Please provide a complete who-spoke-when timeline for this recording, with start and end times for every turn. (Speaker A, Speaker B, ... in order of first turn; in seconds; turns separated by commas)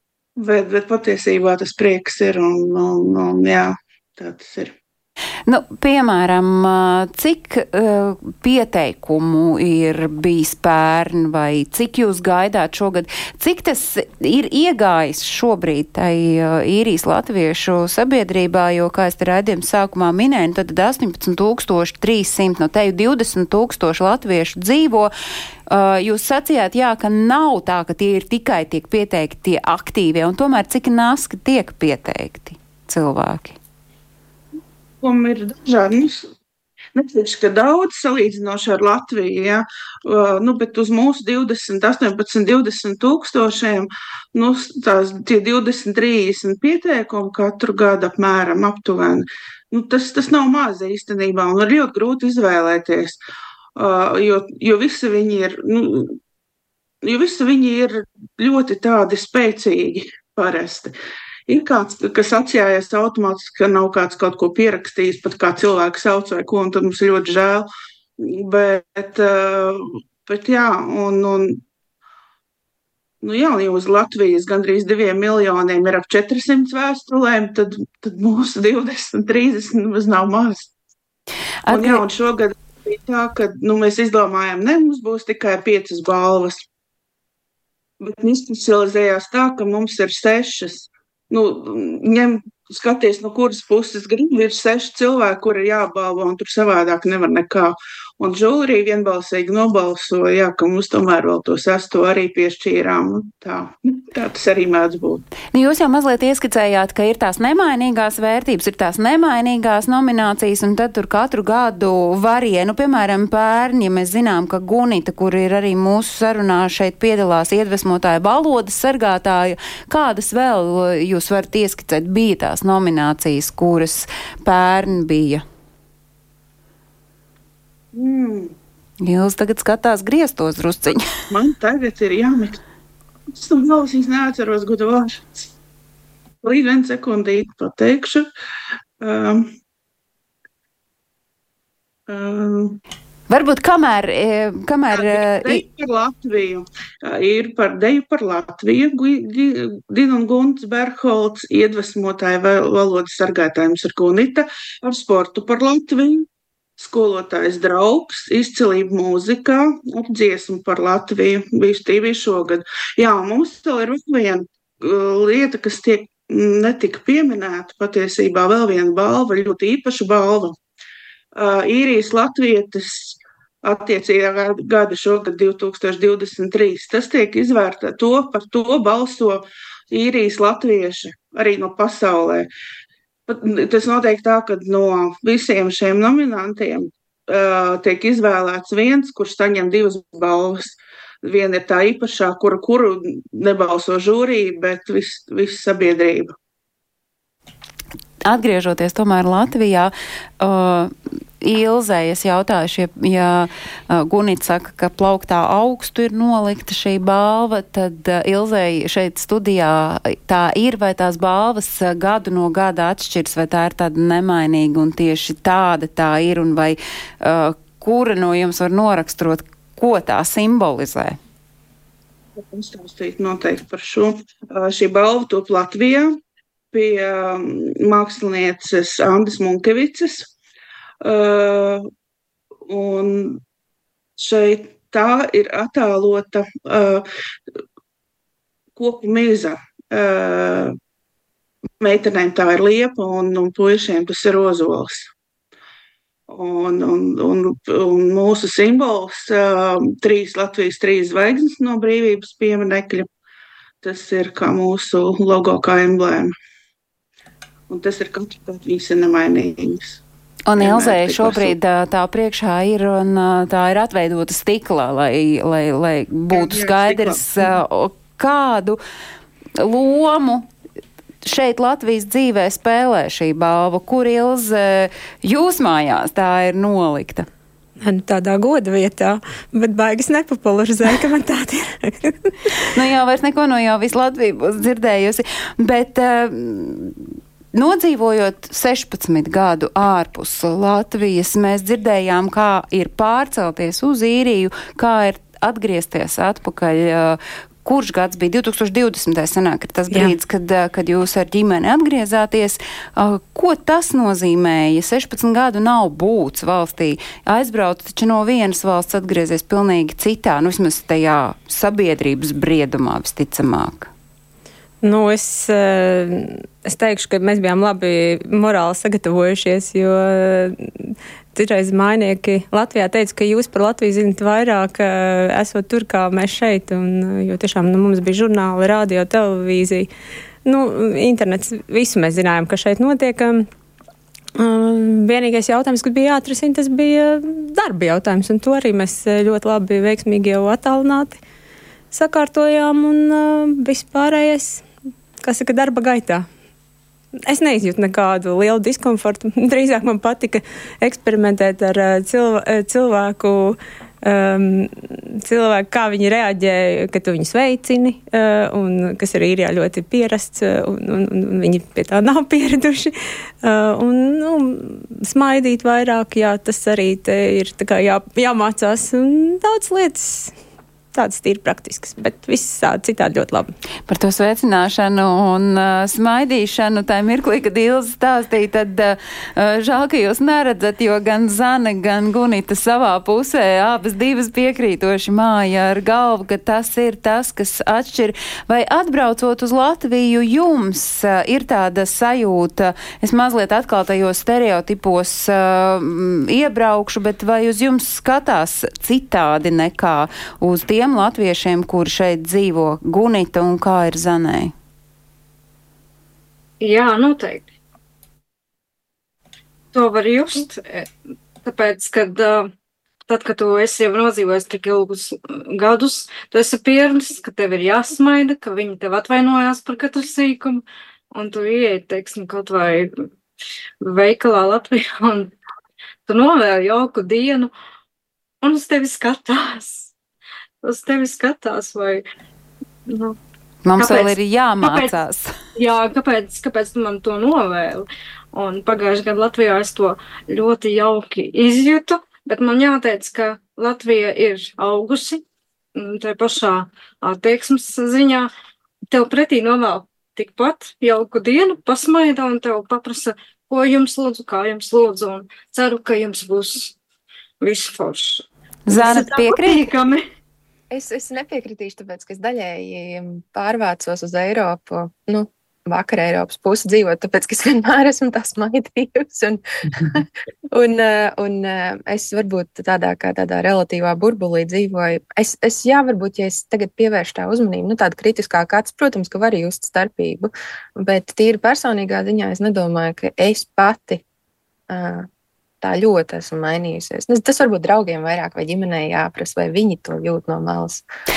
Speaker A: 0.4-4.7, Speaker B: 5.5-25.1, Speaker B: 25.7-33.6, Speaker A: 35.0-36.3, Speaker A: 36.9-53.2, Speaker A: 53.8-56.2, Speaker A: 57.0-60.9, Speaker A: 61.5-71.6, Speaker A: 73.2-80.7, Speaker B: 81.7-82.0, Speaker A: 81.7-86.6, Speaker A: 88.0-105.2, Speaker B: 105.5-125.4, Speaker A: 127.9-128.5, Speaker B: 129.0-131.1, Speaker A: 131.3-132.6, Speaker A: 133.3-135.4, Speaker A: 136.4-138.3, Speaker A: 139.0-139.5, Speaker A: 142.1-142.8, Speaker B: 143.3-145.6, Speaker A: 144.9-156.3, Speaker A: 156.8-170.6, Speaker A: 171.3-182.5, Speaker A: 183.3-196.3, Speaker B: 198.2-221.2, Speaker A: 222.3-226.2, Speaker A: 226.7-230.3, Speaker A: 231.0-231.9, Speaker A: 232.7-233.4, Speaker A: 234.2-237.1, Speaker A: 238.8-240.8, Speaker A: 241.8-245.1, Speaker A: 246.3-253.1, Speaker A: 253.8-256.3, Speaker A: 257.7-260.0, Speaker B: 260.5-268.8, Speaker A: 260.6-261.5, Speaker A: 266.3-267.6, Speaker B: 269.6-270.5, Speaker B: 271.2-277.3, Speaker C: 277.8-282.3, Speaker B: 282.7-287.0, Speaker B: 287.5-313.9, Speaker C: 299.9-300.1, Speaker C: 314.8-329.9, Speaker C: 330.4-333.5, Speaker C: 334.4-341.2, Speaker C: 341.9-344.6, Speaker C: 345.2-346.3, Speaker C: 347.2-362.9, Speaker C: 363.4-370.4, Speaker C: 370.9-373.5, Speaker B: 373.9-404.5, Speaker D: 406.6-407.5, Speaker D: 409.7-410.9, Speaker D: 411.4-412.5, Speaker D: 413.1-423.0, Speaker D: 423.8-425.3, Speaker D: 426.1-427.5, Speaker D: 428.4-429.9, Speaker D: 430.6-432.0, Speaker D: 432.9-433.1, Speaker B: 433.6-435.3, Speaker D: 433.8-434.9, Speaker D: 435.6-445.2, Speaker D: 445.8-448.3, Speaker D: 448.9-456.8, Speaker D: 457.4-460.0, Speaker B: 458.7-459.6, Speaker E: 460.7-484.0, Speaker E: 484.7-485.1, Speaker E: 485.6-490.8